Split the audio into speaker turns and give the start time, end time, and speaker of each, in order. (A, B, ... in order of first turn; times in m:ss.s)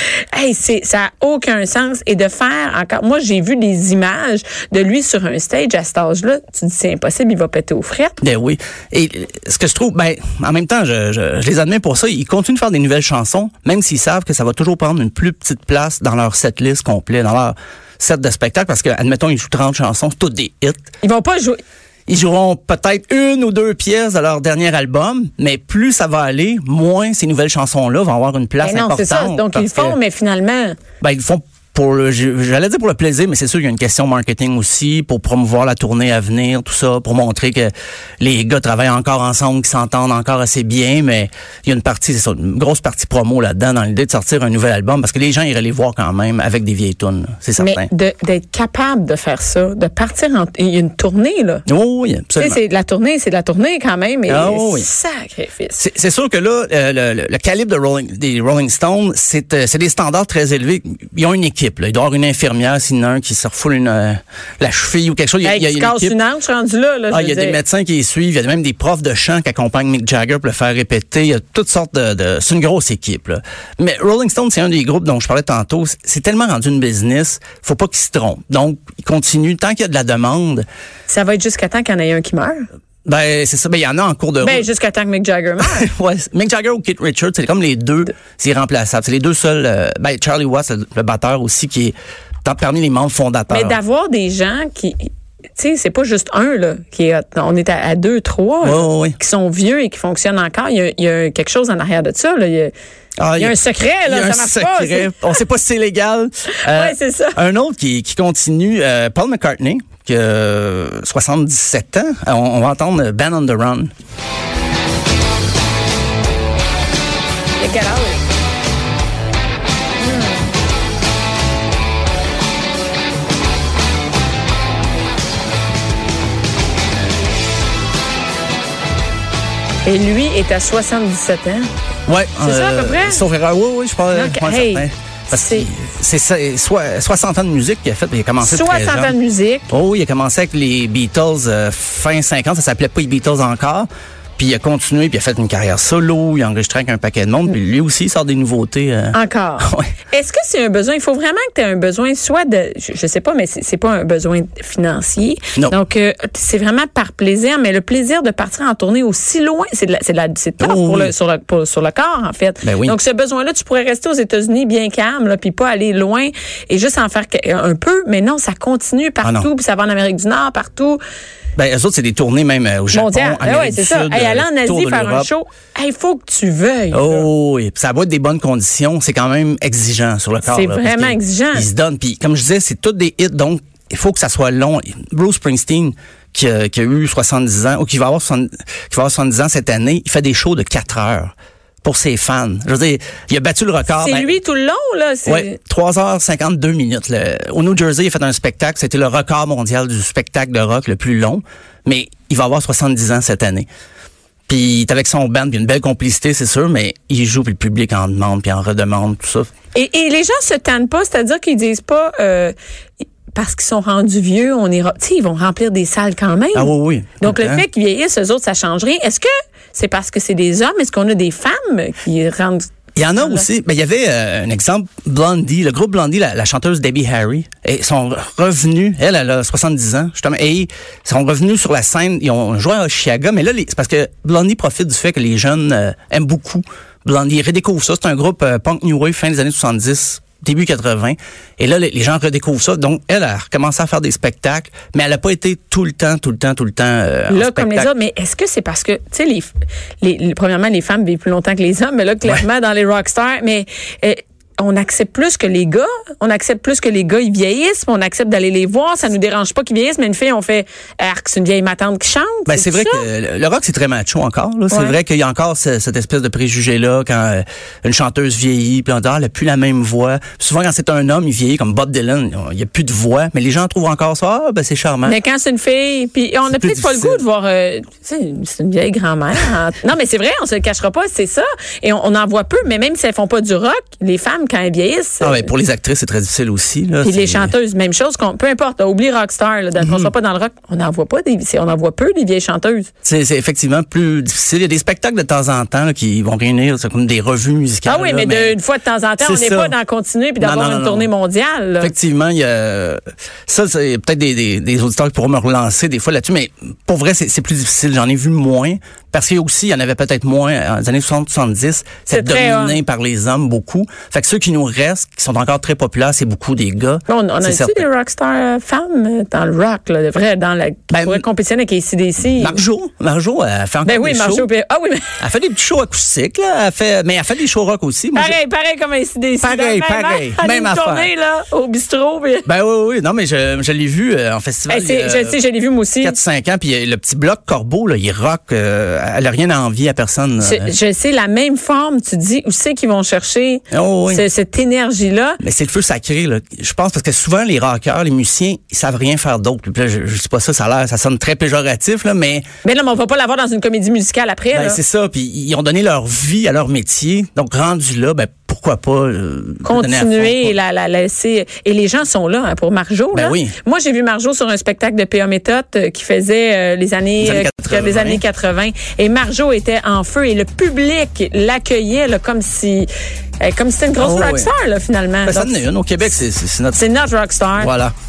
0:00.2-0:08.2 A
0:08.2-0:20.8 B
0:21.0-0:21.6 A
0:22.1-0:30.0 B
0:28.6-0:30.8 A
0:31.0-0:47.9 B
0:47.6-0:51.6 A
0:51.7-0:52.6 B
0:52.4-0:55.8 A
0:54.3-0:54.9 B
0:55.8-1:06.2 B
1:05.4-1:07.6 A
1:07.1-1:20.6 B
1:21.1-1:22.6 A
1:23.0-1:24.7 B
1:24.4-1:25.9 A
1:25.6-1:33.8 B
1:33.5-1:42.7 A
1:38.6-1:39.2 B
1:43.2-1:53.9 B
1:43.4-1:45.2 A
1:46.6-1:47.4 A
1:57.6-1:58.2 A
2:00.0-2:00.5 A
2:09.8-2:11.7 A
2:12.1-2:19.1 B
2:12.4-2:13.2 A
2:14.1-2:15.7 A
2:18.4-2:19.7 A
2:19.7-2:29.9 B
2:29.1-2:51.0 A
2:40.6-2:41.1 B
2:42.6-2:43.0 B
2:49.2-2:49.5 B
2:51.6-2:55.3 B
2:52.9-2:57.3 A
2:56.9-3:11.3 B
3:00.4-3:01.7 A
3:11.8-3:14.4 B
3:14.0-3:15.6 A
3:15.2-3:23.7 B
3:24.5-3:29.5 B
3:29.7-3:32.5 A
3:33.3-3:43.5 A
3:36.5-3:37.6 B
3:43.0-4:07.9 B
4:07.3-4:23.1 A
4:22.5-4:35.2 B
4:24.7-4:25.0 A
4:35.0-4:45.5 A
4:36.5-4:37.2 B
4:45.2-4:47.5 B
4:47.0-4:52.9 A
4:49.8-4:50.1 B
4:53.0-4:58.6 B
4:57.8-5:01.9 A
4:59.2-4:59.8 B
5:00.4-5:01.1 B
5:01.8-5:17.8 B
5:12.1-5:12.8 A
5:17.1-5:22.6 A
5:20.9-5:21.2 B
5:22.3-5:24.5 B
5:23.8-5:25.2 A
5:25.2-5:28.4 B
5:28.1-5:32.5 A
5:29.4-5:31.1 B
5:32.4-5:35.4 B
5:34.7-5:36.2 A
5:36.0-5:40.7 B
5:40.4-5:45.4 A
5:43.7-5:44.2 B
5:45.4-5:52.4 B
5:52.6-5:54.8 A
5:54.5-6:00.5 B
5:59.6-6:12.9 A
6:03.1-6:03.5 B
6:07.2-6:08.2 B
6:13.4-6:15.6 A
6:14.0-6:14.5 B
6:15.2-6:16.9 B
6:16.7-6:17.7 A
6:17.6-6:17.9 B